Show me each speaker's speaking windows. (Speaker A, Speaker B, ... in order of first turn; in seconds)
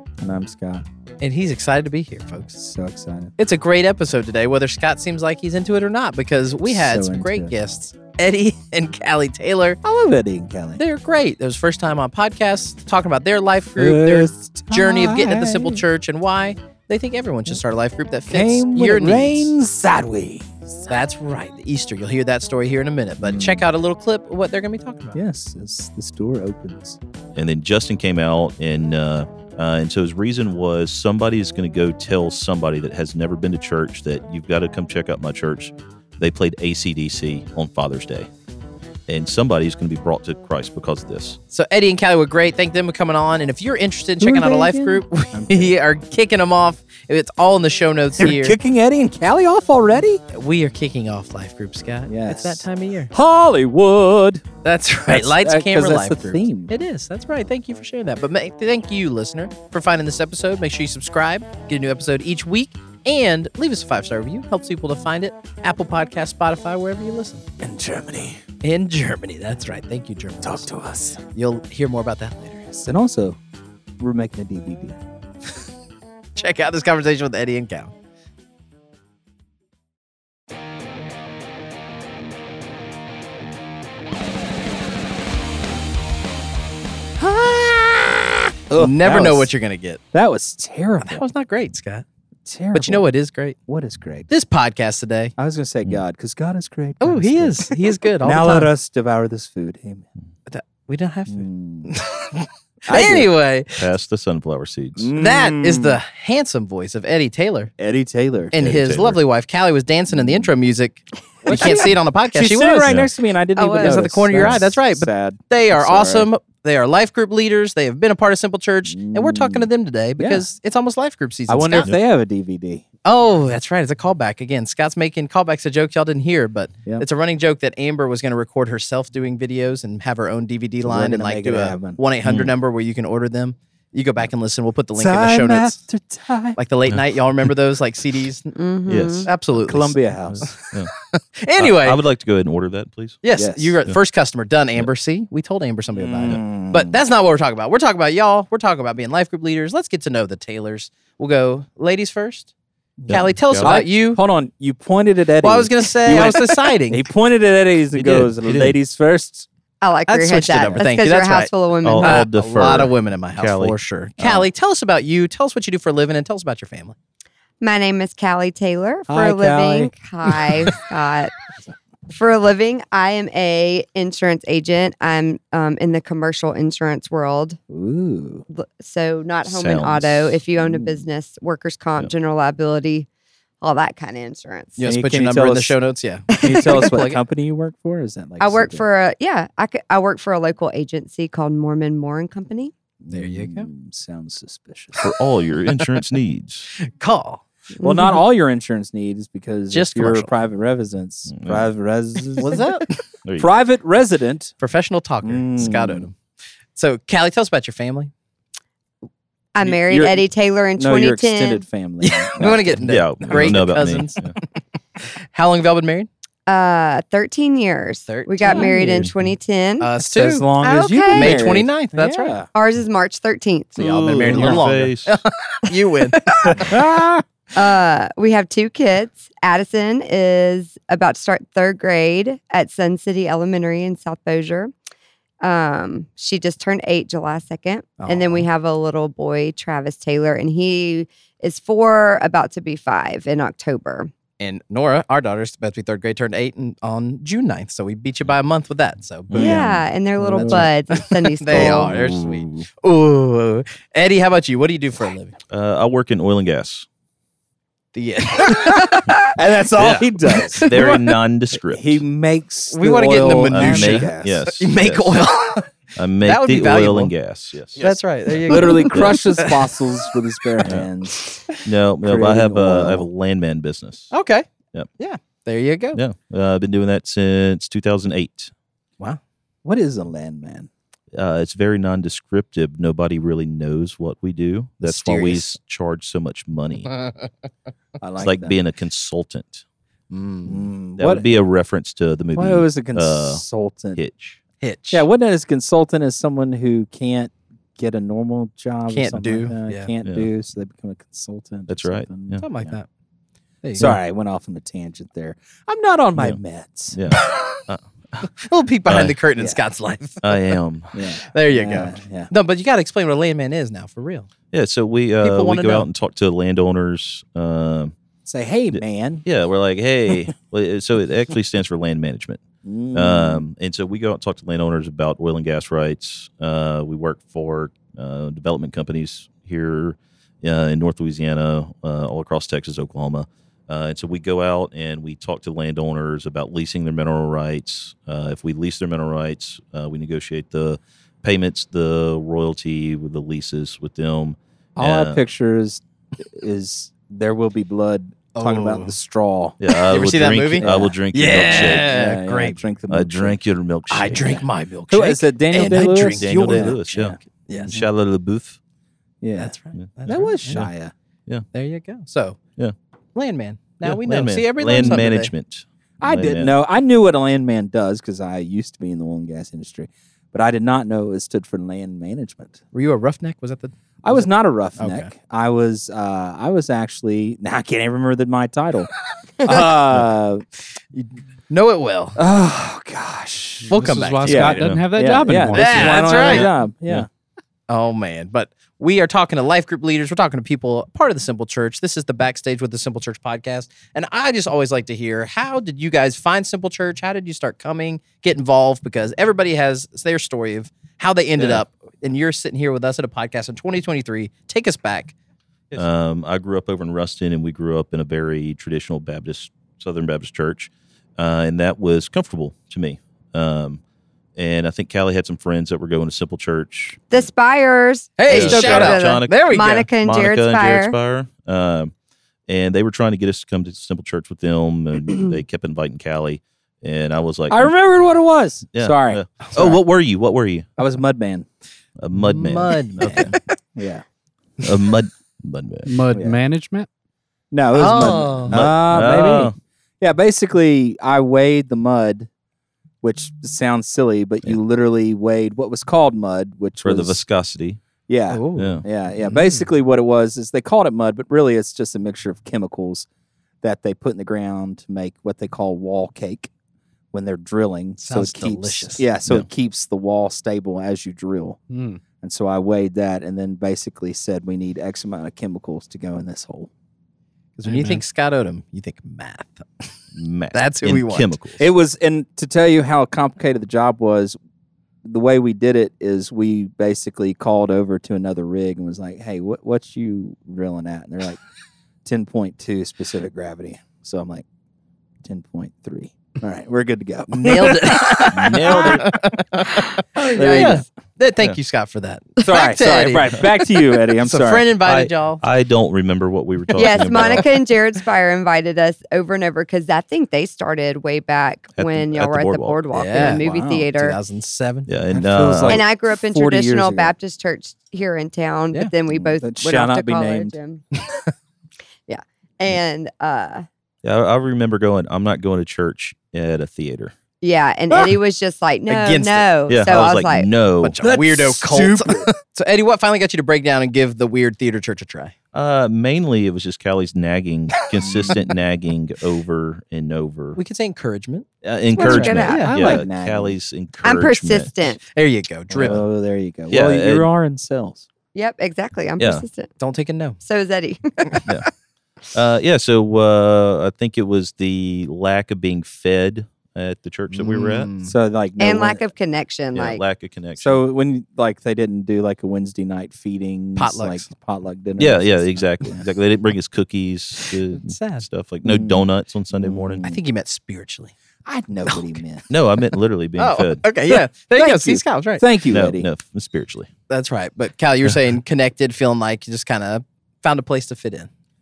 Speaker A: 0.2-0.8, 2.6-3.3, 6.6-7.5, 9.8-10.8, 13.8-15.8, 18.3-20.9, 23.2-23.6, 25.1-27.0, 44.2-45.8, 48.2-50.2, 52.1-54.5, 55.0-56.7, 67.6-68.4, 70.4-71.2, 72.7-73.4, 74.0-75.0, 88.7-89.5, 90.1-91.2, 92.5-93.1, 93.7-94.3, 95.4-100.1, 101.3-101.9, 102.9-103.3, 105.0-106.0, 107.8-108.5, 110.1-110.5, 111.4-116.3, 118.9-120.5, 121.5-122.8, 130.8-132.0, 134.9-136.6, 139.7-140.5, 143.3-143.8, 145.9-147.0, 153.0-159.5, 169.1-169.9, 177.7-178.5, 180.6-181.1, 184.8-185.8, 186.3-188.8, 193.0-195.1, 197.8-202.7, 203.4-204.5, 205.2-206.1, 209.6-213.7, 218.4-219.1, 220.1-222.5, 224.3-224.6, 226.5-227.2, 249.3-250.7, 258.4-261.0, 261.7-264.5, 268.4-271.4, 272.0-273.1, 279.6-280.7, 288.0-288.6, 290.4-291.4, 292.4-294.0, 294.9-302.4, 303.8-307.0, 310.9-312.3, 318.3-319.2, 322.6-323.4, 344.8-349.6, 350.6-353.4, 354.1-357.8, 359.2-359.5, 360.1-360.9, 364.7-365.0, 366.0-372.6, 374.0-380.4, 382.2-383.7, 384.2-387.1, 427.5-429.7, 430.8-431.5, 433.8-434.1, 436.1-436.4, 437.5-442.3, 443.0-447.2, 448.1-453.1, 453.6-456.5, 457.1-461.6, 462.2-466.7, 471.6-474.4, 475.0-481.4, 482.1-484.4, 485.2-489.1, 490.2-490.8, 492.4-494.7, 503.1-503.9, 505.1-507.1, 509.1-510.6, 521.0-522.3, 532.1-533.6, 535.7-538.1, 548.0-549.0, 550.6-556.0, 558.6-560.2, 561.5-562.5, 564.6-566.1
Speaker B: 1.2-2.6, 3.4-9.8, 10.8-19.5, 20.9-25.2, 41.5-48.6, 50.3-53.1, 54.6-67.4, 68.6-70.7, 71.3-72.6, 76.4-77.9, 87.2-90.0, 91.0-92.1, 92.7-93.6, 94.3-95.3, 97.0-98.7, 100.5-103.9, 105.2-107.7, 108.5-113.0, 113.6-121.9, 123.0-135.8, 136.6-138.5, 139.3-142.0, 143.2-152.5, 153.1-154.2, 155.4-157.0, 160.1-167.0, 184.8-187.2, 193.1-193.7, 196.8-197.4, 199.7-200.3, 202.4-202.9, 204.6-206.2, 206.8-208.1, 212.0-214.2, 215.0-216.1, 218.1-218.7, 219.8-220.5, 221.1-222.3, 223.8-226.9, 238.0-238.5, 244.4-249.5, 250.9-255.4, 257.9-259.0, 262.7-265.7, 266.2-267.1, 267.8-269.8, 274.1-274.5, 275.0-276.0, 284.8-285.5, 290.1-290.7, 294.6-295.1, 298.9-299.9, 302.4-302.9, 303.6-303.9, 308.4-310.5, 311.2-314.3, 315.2-315.9, 348.4-348.9, 349.9-352.6, 353.9-357.8, 359.4-360.6, 361.5-362.4, 363.1-365.3, 372.7-375.1, 380.9-382.2, 383.7-384.6, 385.5-386.5, 387.7-405.1, 418.2-419.9, 432.2-433.4, 437.7-438.6, 448.3-449.6, 458.0-459.1, 467.6-469.9, 470.5-471.4, 487.3-493.5, 494.2-495.4, 496.9-497.4, 502.9-504.9, 518.9-519.5, 520.8-525.3, 530.6-531.5, 532.0-532.8, 535.1-536.0, 539.8-540.4, 547.3-548.1, 553.8-554.3, 557.7-558.3, 560.0-561.1, 561.9-562.1, 563.4-565.5, 567.1-571.3
Speaker C: 27.4-38.3, 39.1-41.4, 103.8-105.1, 108.5-109.2, 132.2-132.5, 138.9-139.3, 140.3-140.9, 141.6-143.2, 157.9-158.8, 161.8-164.4, 179.4-180.4, 195.0-196.7, 201.3-201.7, 212.9-214.3, 223.8-225.1, 249.3-249.7, 251.5-252.7, 255.5-256.9, 259.8-262.0, 263.3-265.3, 266.0-267.8, 268.9-269.2, 271.6-274.1, 275.9-278.5, 281.1-286.9, 288.2-289.6, 291.0-294.4, 301.7-302.4, 306.9-308.3, 308.9-309.1, 310.2-311.0, 314.5-317.9, 318.7-322.4, 322.9-345.2, 349.6-352.0, 352.9-354.4, 356.2-358.6, 363.8-366.5, 384.6-384.8, 386.2-387.1, 405.7-413.8, 414.4-417.0, 418.3-421.9, 422.5-427.7, 428.7-430.7, 432.0-433.3, 434.6-435.9, 438.5-439.6, 446.8-447.8, 448.6-448.8, 470.1-471.6, 488.3-489.1, 494.9-497.6, 501.8-502.8, 504.9-505.8, 514.0-517.1, 519.7-521.0, 525.5-530.6, 531.6-534.7, 536.7-537.3, 539.2-539.5, 542.3-547.9, 549.7-550.8, 555.0-560.1, 562.5-563.8, 565.7-566.9
Speaker D: 113.6-114.0, 138.6-139.3, 159.8-162.2, 167.6-171.3, 172.1-177.6, 178.5-183.1, 183.6-184.8, 186.3-186.9, 188.4-192.7, 197.8-198.2, 209.6-211.6, 216.5-219.9, 220.6-221.6, 222.5-224.5, 227.5-234.7, 235.4-244.1, 249.4-251.9, 258.7-259.1, 417.1-420.9, 490.4-490.8, 496.8-504.2, 505.7-510.8, 512.1-513.7, 517.4-520.5, 532.0-533.0, 534.0-535.0, 538.3-539.7, 540.4-541.4, 548.6-550.0
Speaker E: 383.7-386.4, 435.9-436.9, 461.7-462.0, 467.8-468.0